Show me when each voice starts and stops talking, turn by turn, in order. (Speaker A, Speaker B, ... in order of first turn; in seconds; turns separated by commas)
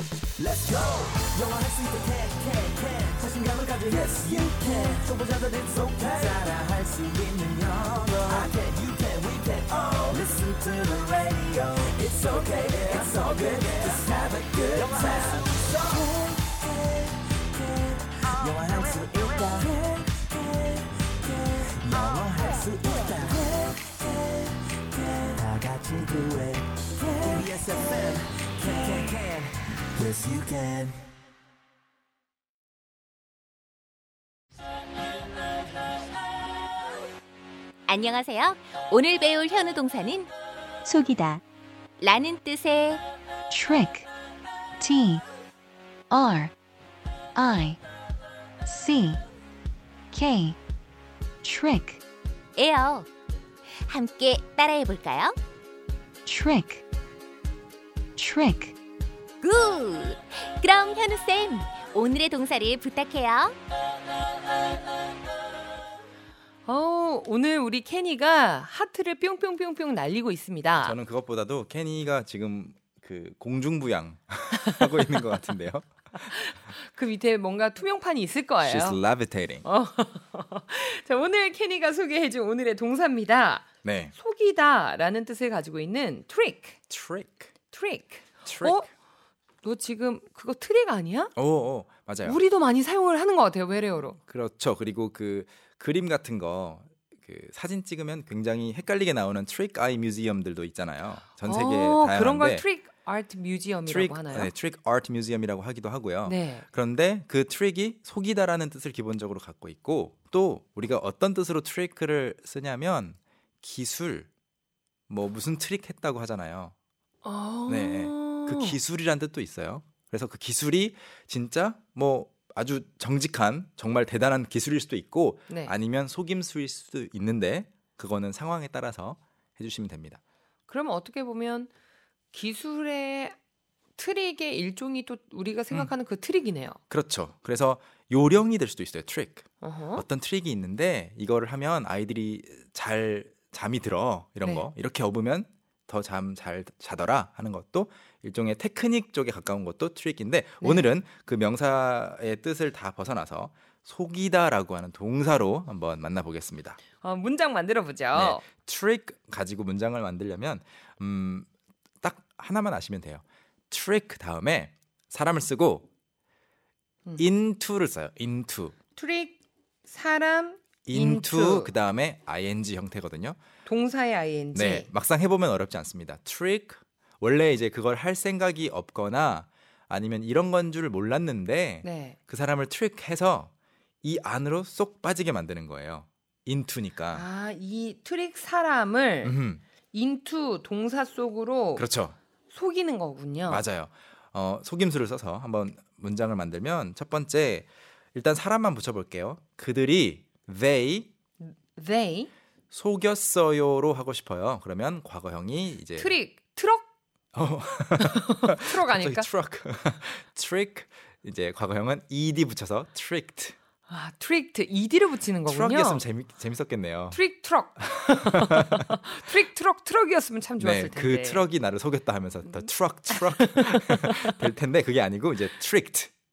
Speaker A: 0.4-16.4, Speaker A: 17.6-23.8, Speaker A: 24.9-31.0, Speaker B: 37.9-40.3, Speaker C: 40.9-41.4, Speaker B: 42.0-43.0, Speaker C: 43.5-44.1, Speaker C: 44.8-45.2, Speaker C: 46.1-46.5, Speaker C: 47.4-47.8, Speaker C: 48.6-49.2, Speaker C: 50.1-50.6, Speaker C: 51.4-52.0, Speaker B: 52.5-53.1, Speaker B: 53.8-55.4, Speaker C: 56.2-56.8, Speaker C: 58.2-58.7, Speaker B: 59.4-63.5, Speaker D: 66.6-71.0, Speaker E: 70.8-75.9, Speaker D: 74.6-75.2, Speaker D: 76.5-79.0, Speaker E: 78.6-79.7, Speaker D: 79.6-86.8, Speaker E: 83.8-84.1, Speaker E: 86.9-87.5, Speaker D: 87.7-88.9, Speaker E: 88.4-88.8, Speaker D: 89.6-91.3, Speaker E: 91.3-92.4, Speaker D: 92.2-94.2, Speaker E: 94.3-102.6, Speaker D: 101.4-104.5, Speaker E: 103.8-114.3, Speaker D: 106.2-106.6, Speaker E: 115.1-116.7, Speaker D: 117.2-118.8, Speaker E: 117.7-130.2, Speaker D: 125.5-125.7, Speaker D: 130.7-131.7, Speaker D: 132.3-133.3, Speaker D: 134.0-136.8, Speaker E: 136.9-156.8, Speaker D: 139.6-140.0, Speaker D: 157.0-158.4, Speaker E: 158.1-161.5, Speaker E: 162.0-165.9, Speaker E: 167.2-168.7, Speaker D: 168.9-171.7, Speaker E: 170.8-173.4, Speaker D: 173.7-174.9, Speaker E: 174.5-183.5, Speaker D: 181.8-182.2, Speaker E: 184.0-187.2, Speaker D: 187.1-189.3, Speaker E: 189.2-189.6, Speaker D: 189.9-191.9, Speaker E: 191.8-192.2, Speaker D: 192.5-193.7, Speaker E: 193.5-201.1, Speaker D: 201.4-202.3, Speaker E: 202.7-206.1, Speaker D: 206.0-206.8, Speaker E: 207.3-213.6, Speaker D: 208.0-209.3, Speaker D: 213.9-216.0, Speaker E: 215.4-217.2, Speaker D: 217.1-221.5, Speaker E: 217.8-219.0, Speaker E: 220.6-226.1, Speaker D: 222.4-224.4